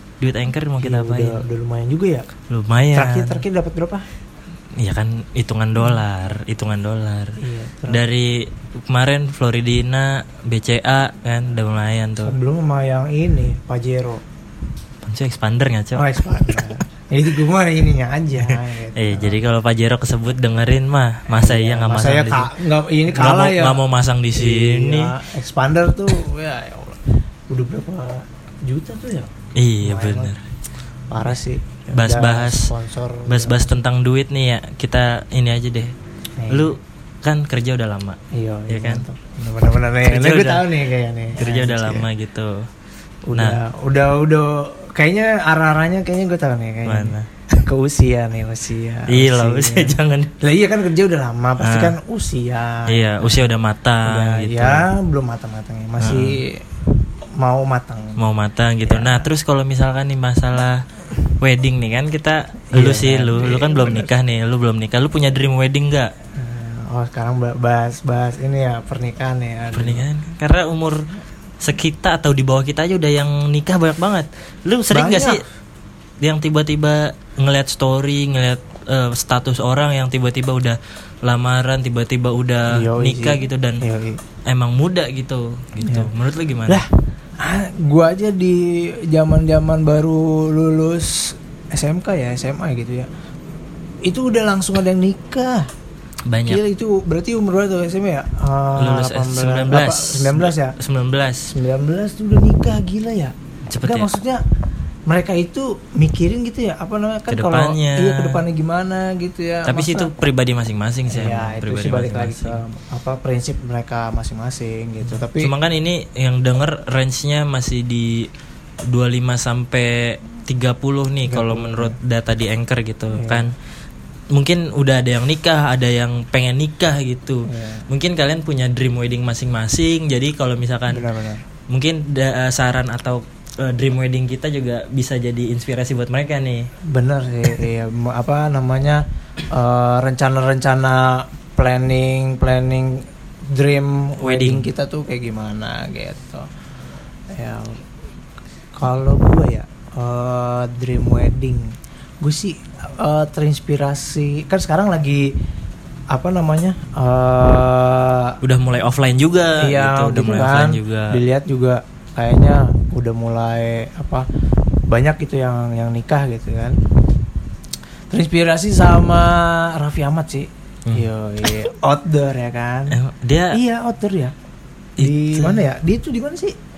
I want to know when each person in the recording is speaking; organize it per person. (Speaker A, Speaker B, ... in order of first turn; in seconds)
Speaker A: 0.2-1.4, 2.5-3.4, 4.8-12.4, 15.0-16.8, 18.4-22.5, 23.1-25.1, 29.6-30.4, 31.9-32.7, 33.3-35.9, 36.5-39.0, 40.0-40.7, 41.4-42.7, 46.9-47.3, 49.1-50.3, 51.6-52.0, 52.9-54.9, 56.0-56.4, 58.2-66.1, 69.7-71.1, 71.6-75.4, 76.2-83.8, 84.5-86.8, 96.3-96.6, 98.8-101.5, 103.7-104.1, 107.3-108.4, 109.7-112.6, 115.3-118.3, 118.9-123.5, 124.3-131.1, 131.7-136.7, 144.2-144.7, 158.4-161.2, 172.9-173.6, 175.0-175.6
Speaker B: 0.8-2.3, 2.9-4.1, 7.4-8.0, 12.2-14.2, 15.9-19.4, 21.3-23.8, 24.3-30.3, 31.1-33.7, 36.4-36.7, 38.3-42.1, 43.3-53.4, 54.0-56.7, 57.4-58.2, 58.9-59.3, 62.7-64.1, 66.3-70.1, 74.9-75.4, 82.7-84.2, 85.8-86.1, 87.4-93.1, 94.0-95.7, 96.5-100.8, 101.5-104.4, 105.1-110.1, 111.1-115.5, 121.3-122.0, 123.1-123.5, 127.5-127.8, 130.9-131.4, 136.8-146.5, 147.3-147.8, 148.7-155.4, 156.1-158.4, 159.6-164.3, 164.9-166.8, 168.1-173.0, 173.5-174.3, 175.0-176.6